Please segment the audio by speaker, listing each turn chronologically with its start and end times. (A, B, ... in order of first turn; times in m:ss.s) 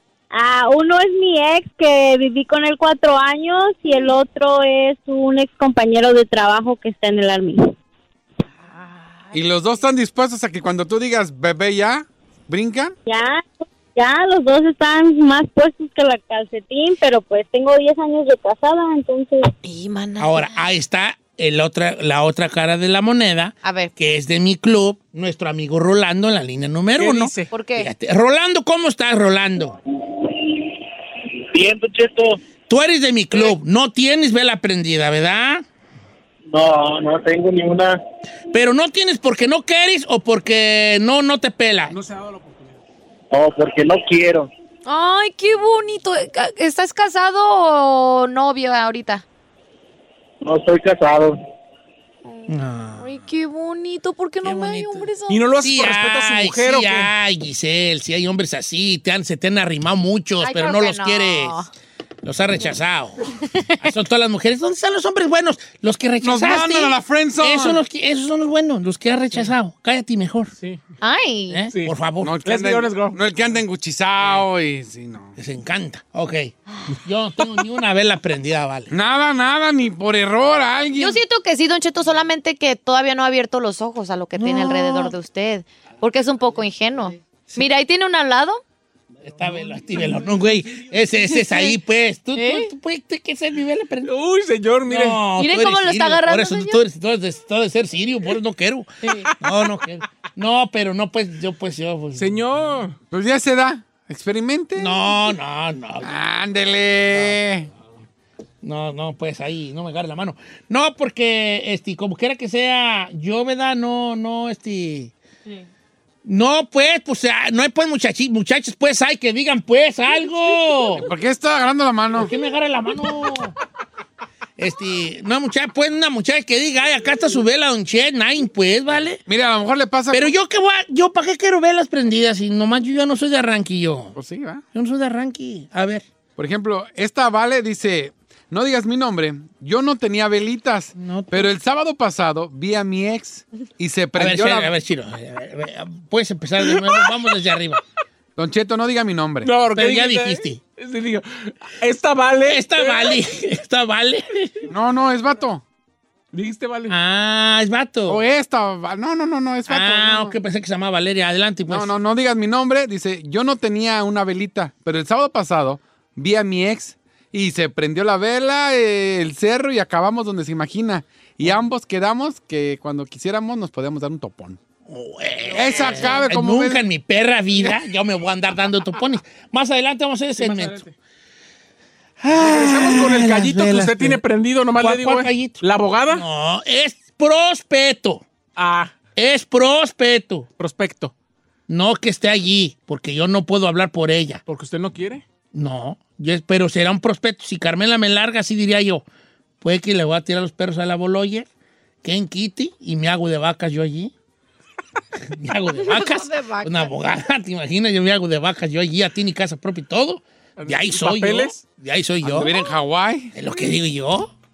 0:00.3-0:07.7 A
0:09.3-0:12.9 B
0:13.0-0:19.5 A
0:19.6-0:20.6 C
0:20.2-0:29.7 D
0:23.6-0:23.9 C
0:27.0-0:27.5 E
0:27.5-0:27.9 C
0:31.5-0:32.4 F
0:32.7-0:35.6 D
0:36.5-0:38.0 F
0:38.5-0:42.0 D
0:41.9-0:42.8 E
0:43.3-0:44.5 F
0:44.8-0:49.2 C
0:50.4-0:51.4 F
0:52.2-0:55.4 C
0:52.5-0:53.1 D
0:54.4-0:55.1 D
0:55.3-0:57.1 E
0:55.6-1:01.6 D
1:00.4-1:01.7 C
1:02.2-1:03.2 D
1:03.8-1:10.5 D
1:06.2-1:07.8 B
1:11.0-1:11.6 C
1:11.5-1:12.4 D
1:12.2-1:15.3 B
1:12.4-1:13.2 E
1:15.4-1:18.9 D
1:18.9-1:21.2 B
1:21.0-1:28.6 C
1:24.4-1:25.1 D
1:29.2-1:34.1 D
1:32.4-1:32.7 C
1:34.0-1:35.2 E
1:34.9-1:42.3 D
1:35.4-1:36.8 C
1:42.2-1:43.0 E
1:43.1-1:45.0 B
1:44.8-1:46.1 D
1:46.0-1:47.7 B
1:47.1-1:47.4 D
1:48.6-1:55.1 D
1:56.2-2:01.1 D
2:01.0-2:02.3 B
2:02.1-2:03.5 D
2:04.6-2:09.2 D
2:09.3-2:10.3 B
2:10.1-2:14.2 D
2:14.1-2:14.6 B
2:14.7-2:16.0 D
2:16.4-2:24.7 B
2:21.0-2:21.5 D
2:24.2-2:27.8 D
2:28.4-2:29.5 B
2:29.4-2:33.2 E
2:29.7-2:30.6 D
2:32.4-2:34.5 D
2:34.7-2:35.6 B
2:36.3-2:37.0 E
2:36.9-2:38.2 D
2:38.1-2:40.3 B
2:39.7-2:41.9 D
2:41.7-2:54.6 B
2:54.9-3:00.8 D
2:55.5-2:56.8 B
3:00.4-3:00.9 E
3:02.2-3:04.2 D
3:02.3-3:06.2 E
3:04.8-3:08.2 D
3:08.6-3:08.9 E
3:09.2-3:10.5 D
3:10.6-3:11.1 E
3:11.7-3:14.4 D
3:14.5-3:15.2 E
3:15.5-3:19.0 D
3:19.6-3:21.5 D
3:22.0-3:24.1 D
3:25.3-3:32.6 D
3:25.8-3:26.9 C
3:30.6-3:31.6 E
3:32.2-3:33.3 B
3:33.3-3:34.3 D